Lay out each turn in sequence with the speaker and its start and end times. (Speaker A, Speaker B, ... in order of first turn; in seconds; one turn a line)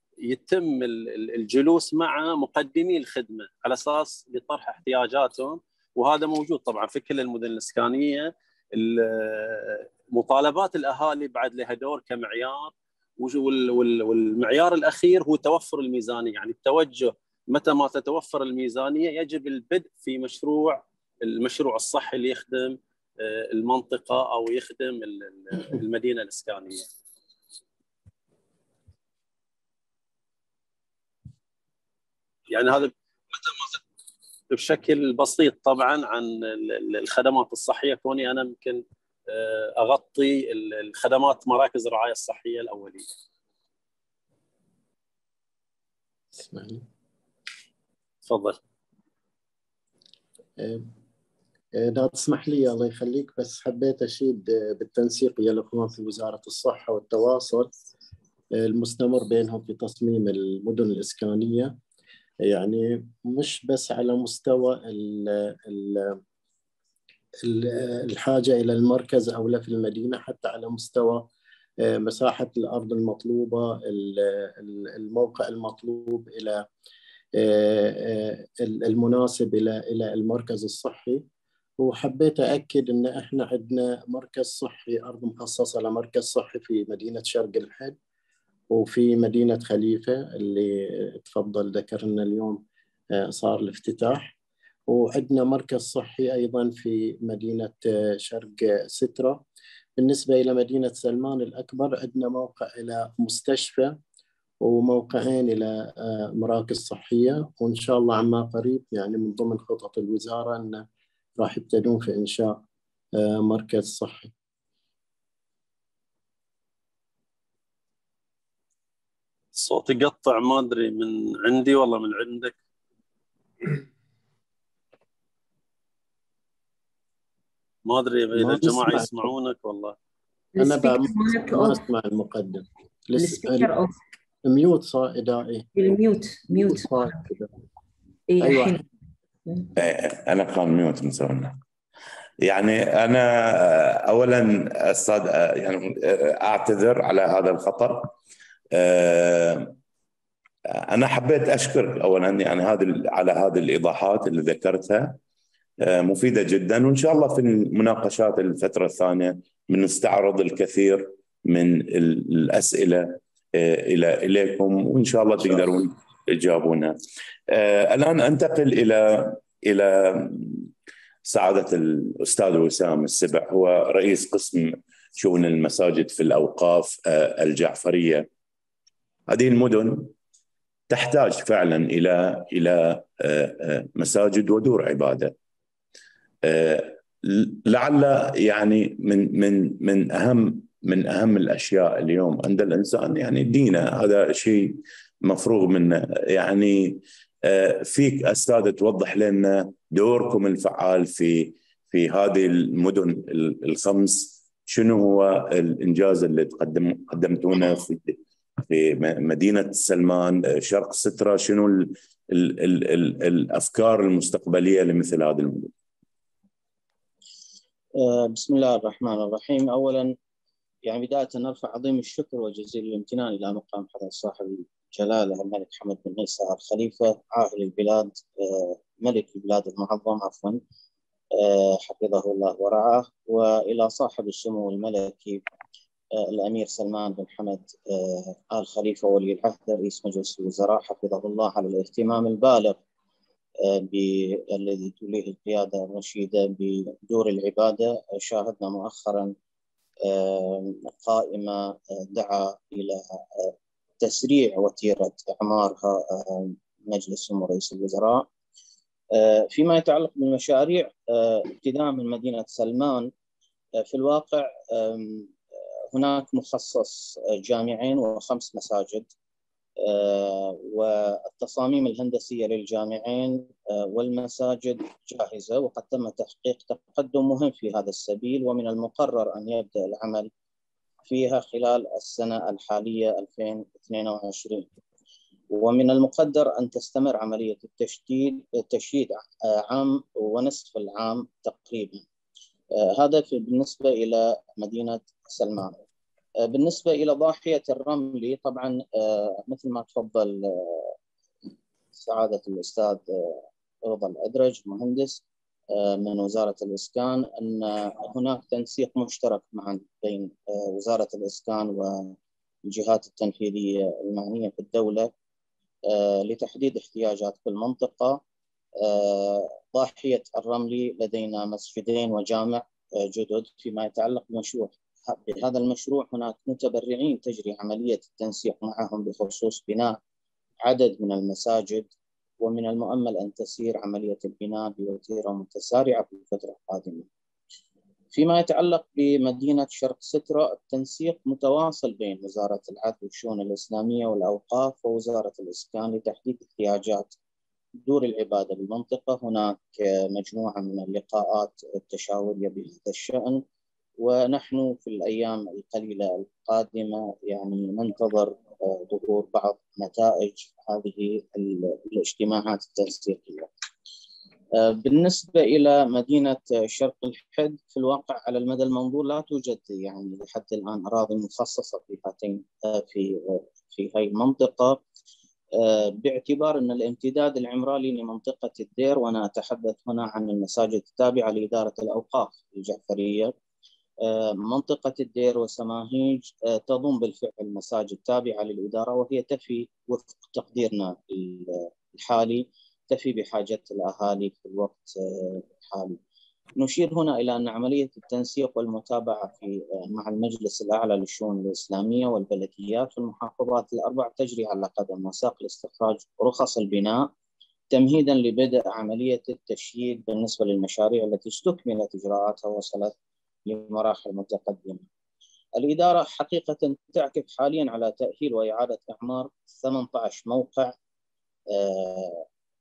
Speaker A: 0.2-26.9
Speaker A: 32.5-33.8
Speaker A: 34.5-43.0
Speaker B: 46.4-46.8
Speaker A: 48.2-48.6
Speaker B: 50.6-50.9
Speaker B: 51.8-57.7
Speaker B: 58.6-61.7
Speaker B: 62.4-66.2
Speaker B: 67.4-71.2
Speaker B: 71.8-76.6
Speaker B: 77.4-81.2
Speaker B: 81.8-88.0
Speaker B: 88.7-92.6
Speaker B: 93.1-94.3
Speaker B: 94.9-99.4
Speaker B: 100.0-103.9
Speaker B: 104.6-110.8
Speaker B: 111.4-112.6
Speaker B: 113.2-114.3
Speaker A: 119.5-122.5
Speaker A: 127.8-129.9
Speaker B: 128.3-129.3
Speaker C: 130.6-131.8
Speaker B: 130.6-133.7
Speaker C: 133.2-133.9
Speaker B: 134.4-135.7
Speaker C: 135.8-137.2
Speaker B: 136.5-137.5
Speaker C: 138.3-138.8
Speaker B: 138.4-138.8
Speaker D: 139.8-141.6
Speaker D: 142.4-148.1
Speaker D: 148.7-149.8
Speaker D: 150.9-155.2
Speaker D: 155.8-167.0
Speaker D: 167.5-170.7
Speaker D: 171.2-178.3
Speaker D: 179.3-180.1
Speaker D: 180.9-185.3
Speaker D: 186.4-215.7
Speaker E: 218.0-220.1
Speaker E: 220.8-230.6
Speaker E: 231.4-235.4
Speaker E: 236.2-242.8
Speaker E: 243.6-249.3
Speaker E: 250.1-258.3
Speaker E: 259.1-263.1
Speaker E: 263.8-265.3
Speaker E: 265.9-269.1
Speaker E: 269.8-280.3
Speaker E: 281.1-284.7
Speaker E: 285.5-292.0
Speaker E: 292.9-295.8
Speaker E: 296.4-300.9
Speaker E: 301.9-305.2
Speaker E: 305.7-312.1
Speaker E: 312.7-315.1
Speaker E: 315.9-318.2
Speaker E: 318.8-330.0
Speaker E: 330.6-337.1
Speaker E: 338.1-347.1
Speaker E: 347.8-353.4
Speaker E: 354.0-363.5
Speaker E: 364.6-374.8
Speaker E: 375.6-383.3
Speaker E: 384.1-396.0
Speaker E: 396.6-407.1
Speaker E: 407.7-412.9
Speaker E: 413.5-414.8
Speaker E: 415.6-420.7
Speaker E: 421.5-422.2